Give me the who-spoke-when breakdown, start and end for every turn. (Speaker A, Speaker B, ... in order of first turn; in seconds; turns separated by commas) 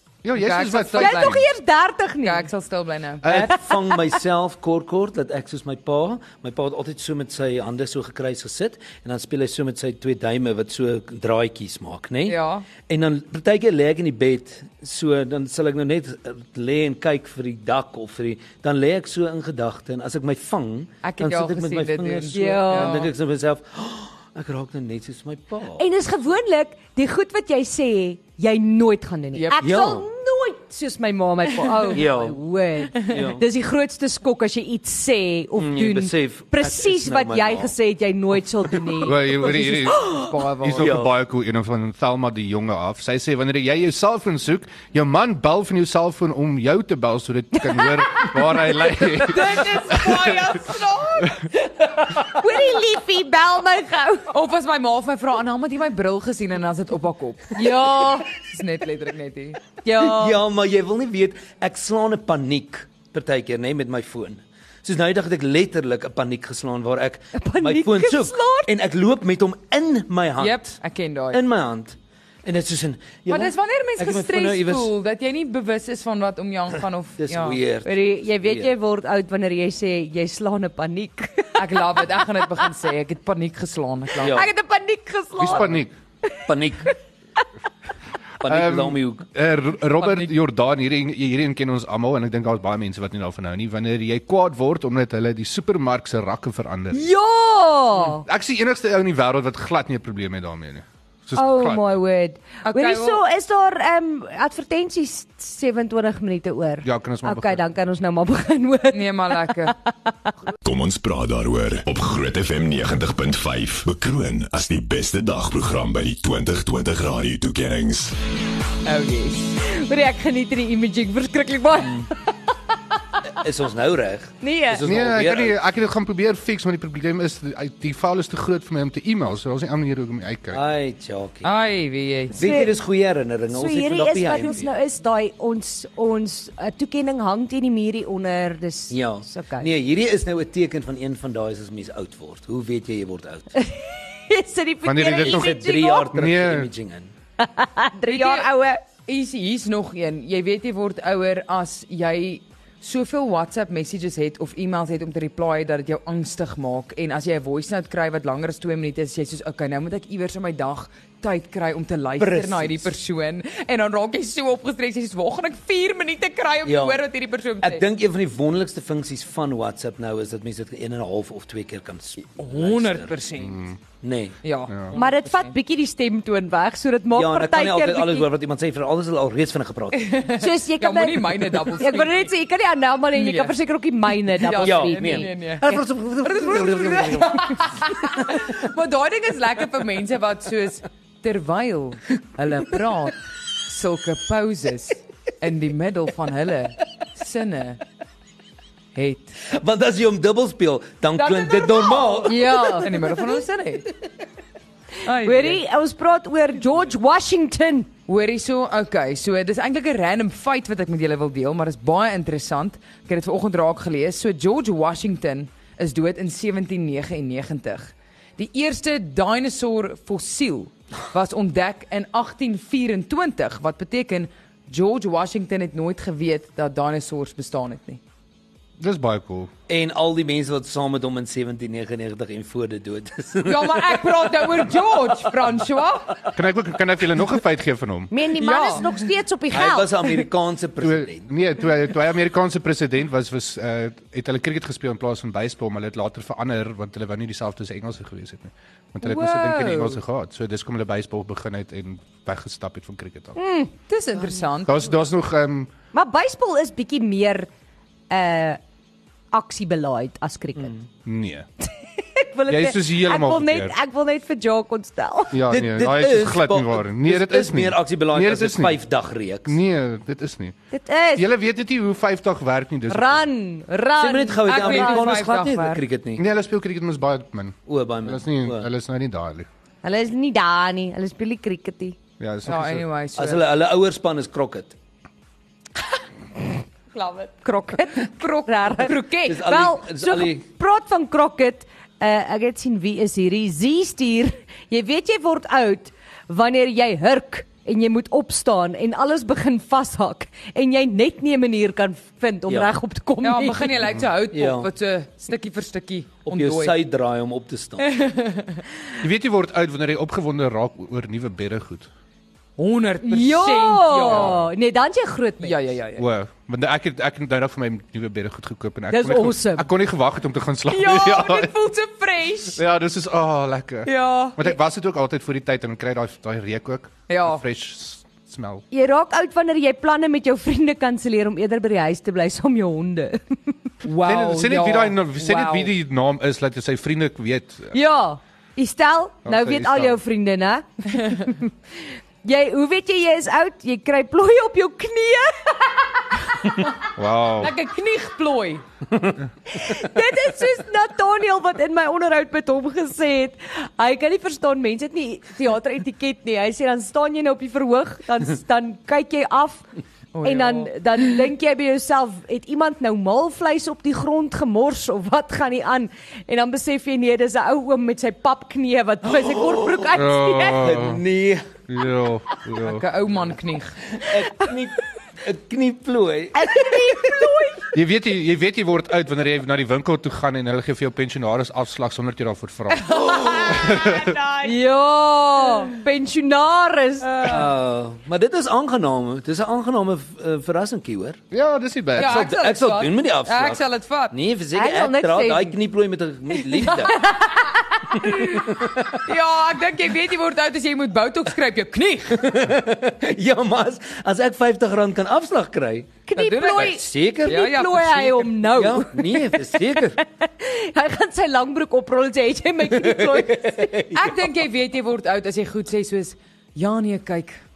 Speaker A: 0.2-1.4, Speaker B: 0.3-1.4, Speaker C: 0.9-2.5, Speaker B: 2.2-3.3, Speaker D: 3.2-25.8, Speaker A: 3.2-3.5, Speaker C: 3.3-4.1, Speaker B: 12.2-12.7, Speaker B: 21.0-23.1, Speaker C: 22.3-23.1, Speaker C: 25.8-39.4, Speaker B: 29.3-29.6, Speaker D: 29.6-30.1, Speaker D: 31.9-32.4, Speaker D: 33.0-33.4, Speaker D: 35.5-37.7, Speaker A: 39.0-50.6, Speaker B: 39.4-41.0, Speaker D: 40.7-41.1, Speaker C: 47.8-48.3, Speaker B: 49.2-51.4, Speaker D: 51.8-52.3, Speaker C: 52.2-54.3, Speaker B: 54.3-59.6, Speaker C: 57.5-58.3, Speaker C: 59.8-60.4, Speaker D: 59.9-70.8, Speaker C: 67.3-68.7, Speaker B: 70.4-71.4, Speaker D: 71.3-74.9, Speaker B: 73.3-77.6, Speaker D: 77.2-78.7, Speaker C: 77.8-82.0, Speaker B: 81.5-84.4, Speaker D: 84.2-84.5, Speaker C: 84.2-86.4, Speaker A: 85.4-85.9, Speaker D: 86.5-86.9, Speaker D: 88.4-89.2, Speaker A: 88.4-97.1, Speaker B: 90.0-90.3, Speaker C: 96.9-98.2, Speaker A: 98.0-101.8, Speaker C: 101.3-110.3, Speaker B: 102.6-103.2, Speaker A: 106.8-107.6, Speaker B: 108.9-109.7, Speaker E: 110.6-118.1, Speaker B: 118.8-119.6, Speaker C: 119.6-122.2, Speaker D: 123.3-125.5, Speaker C: 124.4-124.8, Speaker A: 124.8-130.6, Speaker D: 130.5-131.5, Speaker B: 131.4-132.4, Speaker D: 132.3-134.7, Speaker C: 132.3-132.7, Speaker C: 133.5-139.7, Speaker D: 138.9-143.5, Speaker C: 143.6-146.1, Speaker A: 144.8-146.7, Speaker D: 145.2-147.1, Speaker C: 147.4-148.8, Speaker B: 148.1-167.8, Speaker D: 162.2-162.9, Speaker D: 166.6-167.0, Speaker D: 167.6-173.1, Speaker B: 172.4-173.6, Speaker A: 173.4-173.8, Speaker D: 174.0-174.4, Speaker B: 174.4-175.5, Speaker C: 174.9-178.3, Speaker D: 177.1-180.2, Speaker B: 179.9-182.3, Speaker C: 180.3-186.6, Speaker B: 183.1-183.5, Speaker B: 184.2-185.7, Speaker D: 184.6-188.6, Speaker B: 186.2-197.8, Speaker B: 198.9-199.3, Speaker D: 199.5-203.1, Speaker B: 201.2-203.9, Speaker C: 202.2-202.9, Speaker B: 205.0-205.6, Speaker C: 205.2-207.9, Speaker B: 208.1-228.0, Speaker A: 228.8-229.5, Speaker D: 229.7-234.7, Speaker B: 233.4-236.2, Speaker A: 236.3-238.1, Speaker C: 238.1-240.2, Speaker B: 238.4-238.9, Speaker D: 239.5-241.3, Speaker A: 240.8-253.4, Speaker B: 249.0-250.0, Speaker C: 253.3-253.7, Speaker B: 253.9-254.8, Speaker A: 254.6-255.7, Speaker C: 255.9-257.5, Speaker C: 258.1-258.6, Speaker C: 259.3-260.8, Speaker A: 261.0-261.5, Speaker C: 261.7-265.4, Speaker A: 262.5-263.7, Speaker A: 265.3-268.8, Speaker D: 265.5-269.6, Speaker A: 269.4-270.6, Speaker C: 270.7-271.3, Speaker A: 271.1-273.2, Speaker C: 272.9-275.3, Speaker D: 274.0-276.2, Speaker B: 274.4-275.8, Speaker A: 276.2-279.5, Speaker D: 277.7-278.7, Speaker C: 279.8-282.0, Speaker A: 282.2-282.9, Speaker B: 282.4-283.4, Speaker D: 283.1-284.7, Speaker B: 286.9-289.5, Speaker C: 287.4-303.9, Speaker D: 289.2-290.4, Speaker B: 303.2-306.8, Speaker D: 304.3-304.7, Speaker D: 306.3-307.9, Speaker B: 307.8-308.6, Speaker A: 309.0-311.9, Speaker B: 312.6-314.4, Speaker C: 313.0-315.5, Speaker B: 315.4-316.1, Speaker A: 316.0-321.5, Speaker C: 318.9-319.7, Speaker B: 320.7-322.6, Speaker A: 322.5-328.6, Speaker B: 323.9-324.5, Speaker B: 327.1-327.4, Speaker C: 328.7-333.4, Speaker B: 333.8-335.7, Speaker A: 334.0-337.8, Speaker C: 337.7-341.5, Speaker A: 339.2-340.0, Speaker C: 342.2-346.6, Speaker A: 346.9-347.5, Speaker B: 347.4-348.6, Speaker C: 349.5-359.6, Speaker B: 360.1-360.7, Speaker C: 360.2-370.9, Speaker D: 369.1-369.9, Speaker A: 369.9-371.0, Speaker D: 370.5-371.5, Speaker A: 371.7-372.8, Speaker B: 372.5-373.9, Speaker D: 373.9-377.1, Speaker C: 376.3-377.7, Speaker A: 377.7-384.2, Speaker B: 382.9-384.6, Speaker D: 383.0-383.5, Speaker C: 384.4-387.4, Speaker B: 387.0-387.5, Speaker D: 387.2-391.2, Speaker A: 391.3-392.2, Speaker B: 391.9-394.1, Speaker D: 392.0-397.1, Speaker C: 394.5-395.6, Speaker C: 396.7-398.2, Speaker D: 397.9-399.0, Speaker B: 399.0-402.3, Speaker D: 402.1-406.0, Speaker C: 406.1-413.9, Speaker B: 406.1-408.3, Speaker D: 406.5-407.5, Speaker D: 408.4-410.0, Speaker D: 412.7-414.2, Speaker B: 413.9-417.4